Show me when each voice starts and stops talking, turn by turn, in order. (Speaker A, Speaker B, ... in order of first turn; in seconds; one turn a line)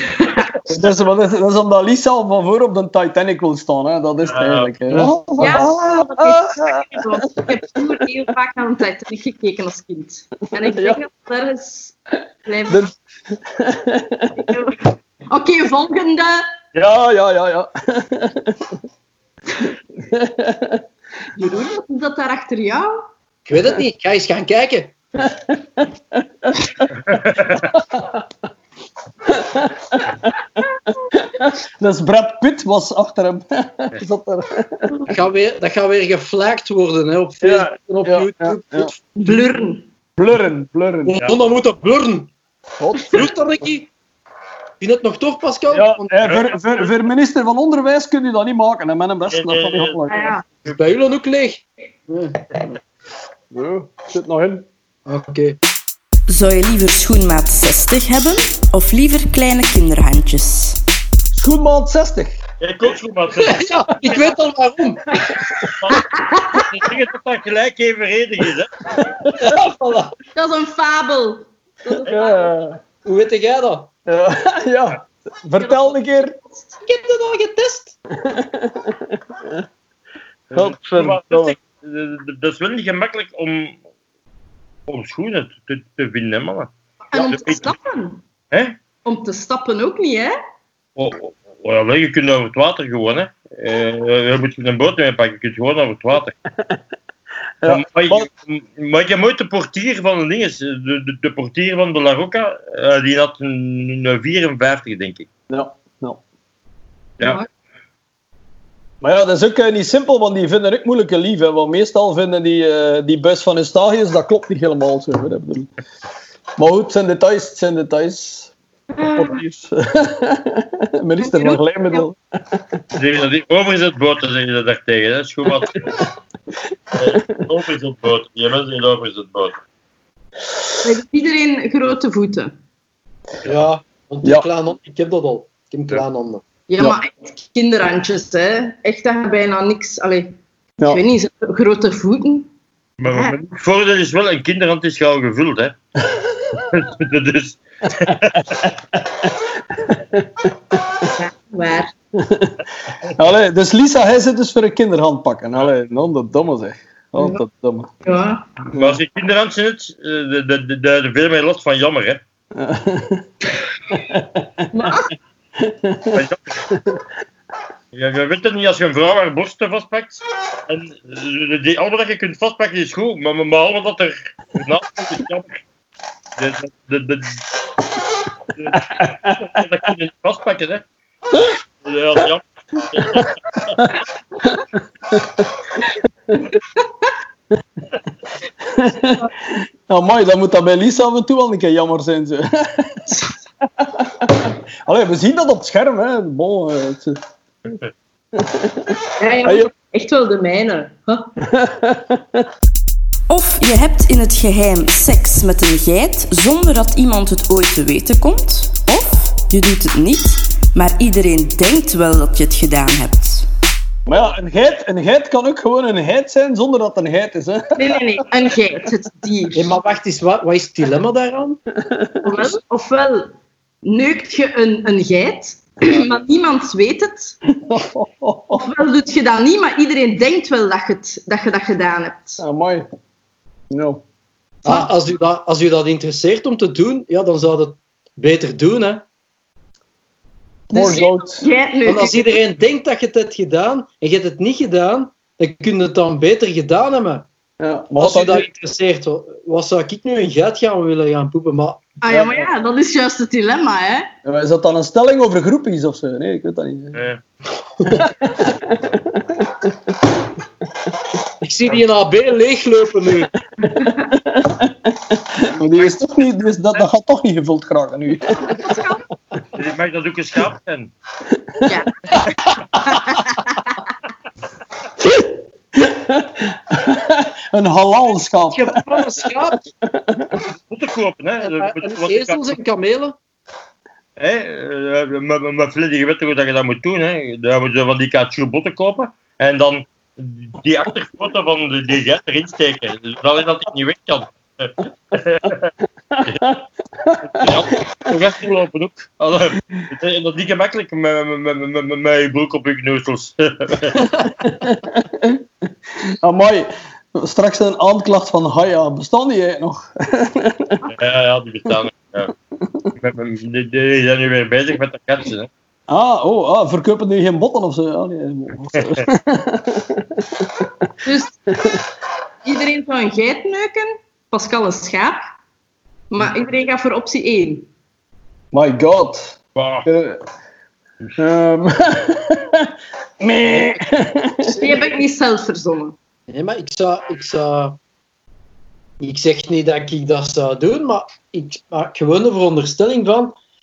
Speaker A: 0.1-0.5
Speaker B: 0.7-7.4
Speaker C: 4.2-4.7
Speaker A: 5.4-12.9
Speaker B: 10.6-11.0
Speaker B: 13.4-14.5
Speaker A: 14.3-16.4
Speaker B: 16.7-18.7
Speaker B: 20.0-20.8
Speaker A: 21.4-23.0
Speaker D: 23.5-24.9
Speaker B: 25.4-26.8
Speaker C: 27.0-27.7
Speaker B: 27.8-28.2
Speaker B: 29.3-30.3
Speaker B: 31.1-35.1
Speaker D: 35.1-39.0
Speaker B: 37.4-38.9
Speaker A: 39.1-39.9
Speaker B: 40.2-41.1
Speaker D: 41.0-42.3
Speaker B: 42.8-43.3
Speaker D: 43.1-43.9
Speaker D: 44.8-46.3
Speaker B: 45.7-50.3
Speaker C: 46.2-46.9
Speaker C: 49.3-50.0
Speaker A: 50.1-50.4
Speaker D: 50.7-52.8
Speaker B: 53.5-54.7
Speaker D: 55.1-55.6
Speaker E: 56.3-60.8
Speaker B: 61.3-62.4
Speaker C: 62.6-64.3
Speaker D: 63.4-65.1
Speaker C: 65.7-68.8
Speaker A: 65.9-66.7
Speaker B: 69.0-69.5
Speaker D: 69.4-70.1
Speaker A: 70.3-72.5
Speaker B: 72.0-72.8
Speaker D: 73.0-73.9
Speaker B: 74.1-76.3
Speaker A: 75.6-75.9
Speaker D: 76.8-77.9
Speaker B: 78.2-79.6
Speaker C: 80.5-83.8
Speaker B: 80.5-81.5
Speaker C: 84.9-87.6
Speaker A: 87.1-88.2
Speaker C: 88.5-88.8
Speaker A: 89.0-90.3
Speaker C: 91.0-96.3
Speaker B: 96.5-96.8
Speaker B: 97.6-98.3
Speaker C: 97.7-105.3
Speaker B: 105.5-106.2
Speaker B: 109.0-115.7
Speaker B: 116.6-118.5
Speaker A: 119.0-119.4
Speaker B: 119.1-122.8
Speaker A: 121.2-122.0
Speaker C: 122.9-125.8
Speaker B: 126.9-127.4
Speaker C: 127.0-129.6
Speaker A: 130.8-132.5
Speaker D: 133.4-136.4
Speaker A: 136.7-142.5
Speaker C: 143.0-145.7
Speaker A: 143.1-143.3
Speaker B: 146.2-146.6
Speaker C: 146.7-148.7
Speaker B: 148.3-150.8
Speaker A: 151.0-151.9
Speaker B: 152.1-152.6
Speaker B: 153.1-157.9
Speaker A: 158.0-158.4
Speaker B: 158.7-159.0
Speaker C: 158.7-162.2
Speaker B: 162.5-163.2
Speaker B: 163.9-164.7
Speaker A: 164.7-165.1
Speaker B: 165.6-167.0
Speaker C: 166.1-166.6
Speaker C: 167.9-175.6
Speaker C: 176.4-177.4
Speaker C: 178.5-180.8
Speaker B: 179.0-179.4
Speaker C: 181.8-183.9
Speaker B: 185.1-185.4
Speaker B: 188.6-193.2
Speaker B: 193.8-197.2
Speaker B: 198.3-199.7
Speaker A: 199.2-201.3
Speaker B: 201.4-202.4
Speaker E: 203.3-213.4
Speaker B: 214.1-218.0
Speaker A: 217.8-219.7
Speaker D: 219.5-221.6
Speaker B: 221.8-222.2
Speaker A: 222.2-223.3
Speaker A: 223.8-227.3
Speaker B: 227.5-228.7
Speaker A: 228.6-232.4
Speaker B: 232.4-232.8
Speaker B: 233.7-234.0
Speaker D: 234.6-239.1
Speaker B: 240.7-241.5
Speaker A: 240.7-242.4
Speaker D: 241.8-247.3
Speaker B: 247.6-248.5
Speaker D: 248.0-251.8
Speaker A: 252.0-254.1
Speaker B: 252.1-252.5
Speaker B: 254.2-257.0
Speaker C: 256.9-257.2
Speaker D: 257.8-258.0
Speaker B: 258.0-260.0
Speaker D: 261.4-263.3
Speaker A: 263.6-264.1
Speaker B: 264.1-268.7
Speaker C: 265.6-266.0
Speaker A: 268.4-269.1
Speaker C: 269.6-270.9
Speaker B: 271.3-271.8
Speaker A: 271.6-273.8
Speaker B: 275.7-278.8
Speaker D: 278.5-279.6
Speaker B: 279.8-280.4
Speaker C: 280.7-282.6
Speaker D: 281.4-283.1
Speaker C: 284.2-295.7
Speaker B: 296.1-297.5
Speaker C: 297.3-304.1
Speaker B: 304.4-305.4
Speaker B: 306.1-310.8
Speaker C: 310.9-312.3
Speaker B: 312.6-312.9
Speaker C: 312.9-315.5
Speaker B: 315.9-320.9
Speaker A: 321.0-321.3
Speaker A: 322.4-325.2
Speaker A: 326.1-327.7
Speaker B: 328.5-330.2
Speaker C: 329.6-329.9
Speaker B: 331.2-334.6
Speaker D: 333.5-333.9
Speaker D: 334.4-335.0
Speaker A: 334.6-335.9
Speaker D: 336.3-337.8
Speaker D: 339.0-343.3